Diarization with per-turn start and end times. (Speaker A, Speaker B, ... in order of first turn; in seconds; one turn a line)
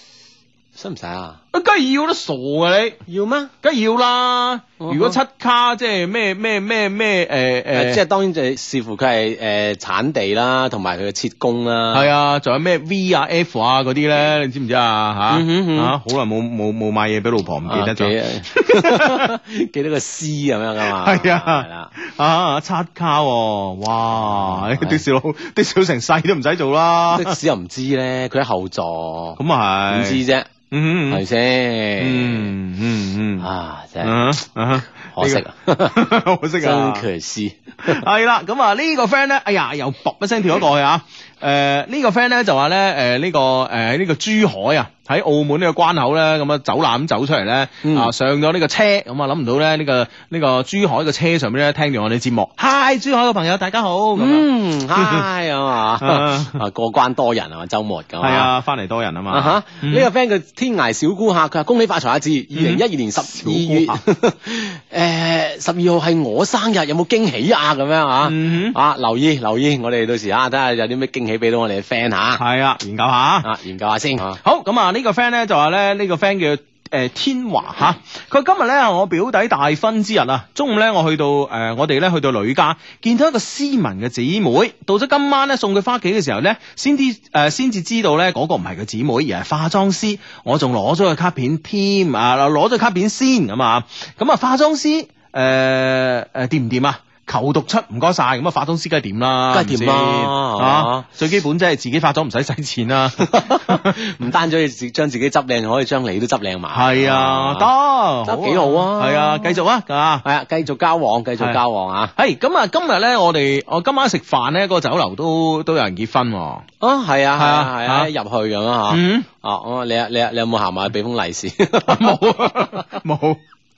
Speaker A: 0.8-1.4
Speaker B: 1.5-3.0
Speaker A: 3.1-3.5
Speaker B: 3.6-8.0
Speaker A: 4.8-5.2
Speaker A: 7.7-12.1
Speaker B: 11.9-19.3
Speaker A: 15.3-15.9
Speaker A: 17.7-21.9
Speaker B: 20.9-27.4
Speaker A: 24.1-25.0
Speaker A: 27.1-30.5
Speaker B: 29.4-31.2
Speaker A: 31.1-32.5
Speaker B: 32.0-33.5
Speaker A: 33.4-34.3
Speaker B: 34.0-37.0
Speaker A: 35.1-36.0
Speaker A: 36.6-38.0
Speaker B: 37.8-55.2
Speaker A: 47.8-48.1
Speaker A: 54.2-58.5
Speaker B: 56.0-56.6
Speaker B: 58.2-60.1
Speaker A: 59.3-72.4
Speaker B: 62.5-64.0
Speaker B: 68.2-68.8
Speaker B: 72.4-73.5
Speaker A: 73.4-74.4
Speaker B: 74.4-104.0
Speaker A: 99.5-101.0
Speaker A: 103.3-107.7
Speaker B: 106.7-110.2
Speaker A: 108.2-109.6
Speaker A: 110.2-112.1
Speaker B: 112.2-116.6
Speaker A: 116.8-122.2
Speaker B: 117.4-118.1
Speaker B: 118.9-119.3
Speaker B: 121.8-123.4